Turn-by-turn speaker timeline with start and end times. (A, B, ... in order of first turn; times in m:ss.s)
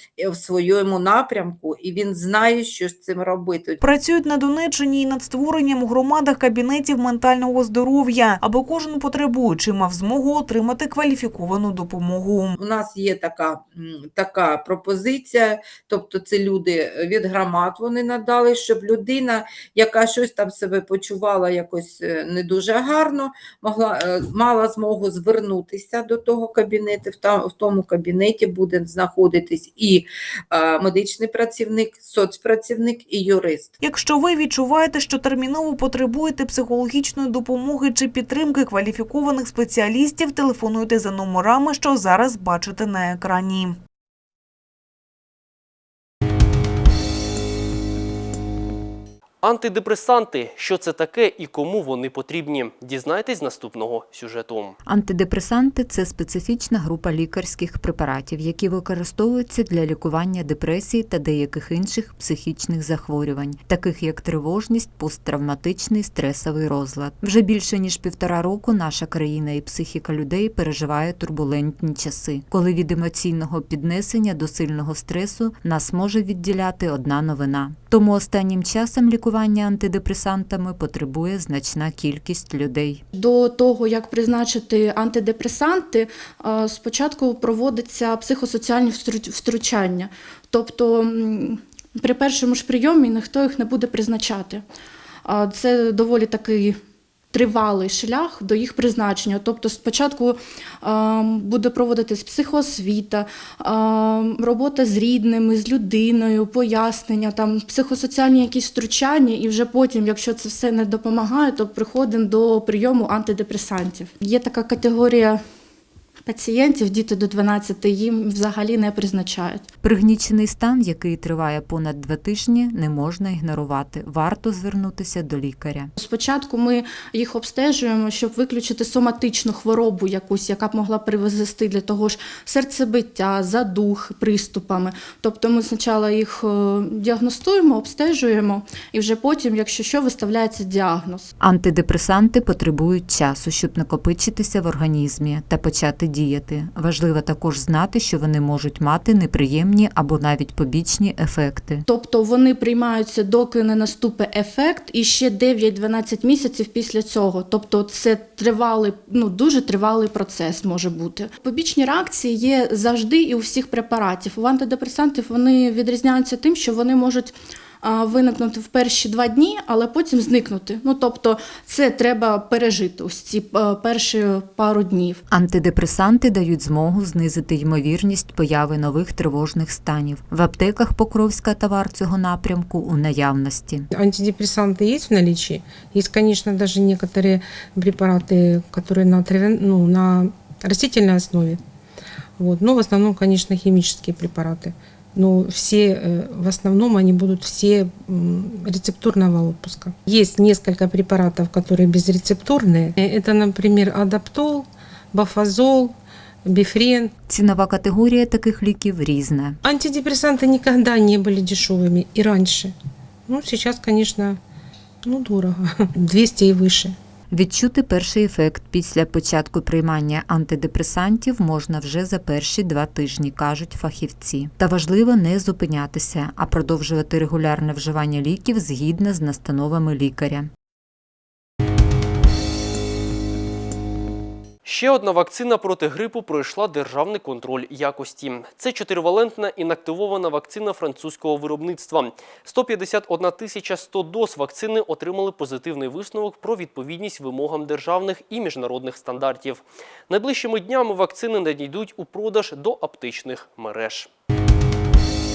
0:00.2-0:03.8 A
0:03.8-0:12.6 B
0:12.6-0:33.7 A
0:33.8-0:43.8 B
0:49.4-0:54.8 C
0:54.8-1:23.0 D
1:23.1-1:34.6 E
1:35.2-1:36.8 E
1:37.3-1:55.4 E
1:56.2-1:59.6 E
1:59.8-2:05.9 D
2:06.0-2:21.3 E
2:21.4-2:31.8 D
2:31.8-2:55.2 E
2:55.3-3:03.9 D
3:03.9-3:11.6 F
3:12.4-3:26.0 F
3:26.5-3:27.1 F
3:27.3-3:29.6 D
3:29.6-3:32.7 F
3:33.3-3:34.4 F
3:35.0-3:36.9 F
3:37.3-3:50.5 D
3:54.6-4:14.1 C